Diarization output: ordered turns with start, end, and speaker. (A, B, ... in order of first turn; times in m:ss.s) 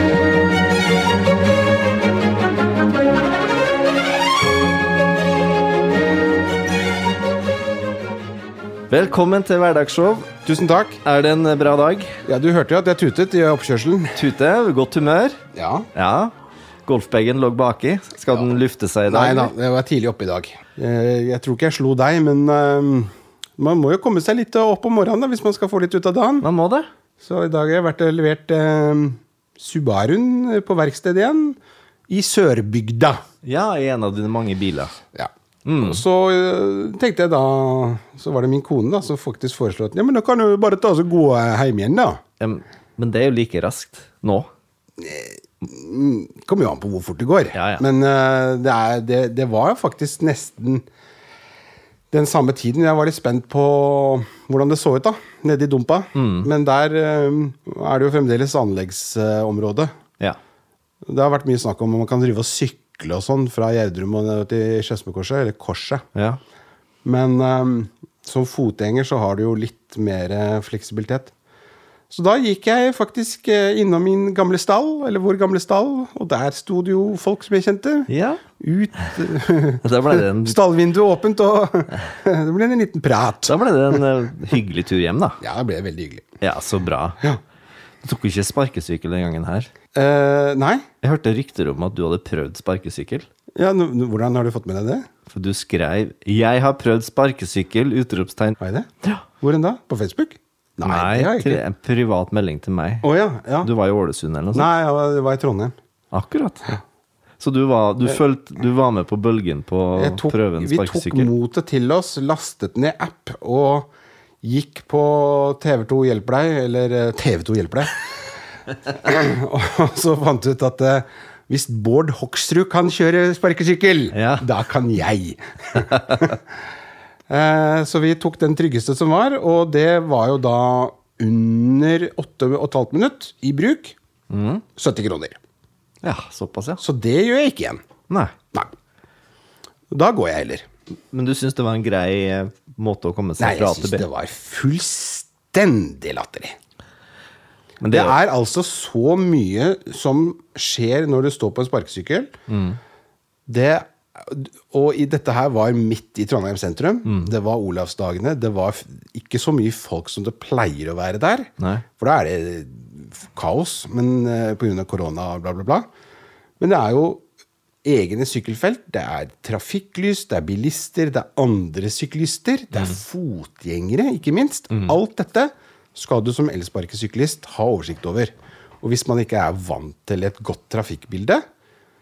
0:08.9-0:10.3 A
0:10.4-0:11.0 B
0:11.0-0:12.2 A
0:12.2-0:14.2 B
0:14.2-0:15.4 A
0:15.5-0:15.9 B
0:15.9-0:16.3 A
0:16.8-0:19.5 A
0:19.1-0:26.4 B
0:26.4-0:26.9 A
0:27.2-0:31.6 B
0:32.1-0:33.2 B
0:33.4-0:34.9 A
0:35.1-0:42.2 B
0:35.6-0:36.0 A
0:42.4-0:44.5 A
0:45.0-0:50.8 B
0:47.5-0:47.8 A
0:52.1-0:59.9 B
0:56.1-0:56.5 A
1:01.0-1:06.0 B
1:06.1-1:06.4 A
1:07.0-1:11.3 B
1:12.1-1:24.0 B
1:18.1-1:18.4 A
1:19.8-1:20.6 A
1:23.4-1:25.4 A
1:25.4-1:26.3 B
1:26.4-1:27.2 A
1:28.0-1:29.7 A
1:29.9-1:30.8 B
1:31.0-1:33.3 A
1:33.6-1:35.1 B
1:35.3-1:39.2 A
1:38.6-1:38.9 B
1:39.4-1:41.6 B
1:40.8-1:43.1 A
1:43.0-1:43.7 B
1:43.6-1:44.7 A
1:44.5-1:45.8 B
1:46.1-1:46.7 A
1:47.4-1:51.3 A
1:50.0-1:53.9 B
1:54.4-1:58.1 B
1:58.8-2:06.4 B
2:04.1-2:04.4 A
2:07.3-2:14.0 B
2:14.3-2:14.6 A
2:14.8-2:15.4 B
2:16.0-2:16.8 A
2:16.8-2:17.8 B
2:18.1-2:18.3 A
2:19.9-2:20.6 B
2:21.1-2:24.0 A
2:23.4-2:26.6 B
2:27.8-2:28.2 A
2:27.9-2:32.3 B
2:32.5-2:32.8 A
2:33.5-2:45.9 B
2:41.6-2:41.8 A
2:46.6-2:47.2 B
2:47.8-3:01.4 B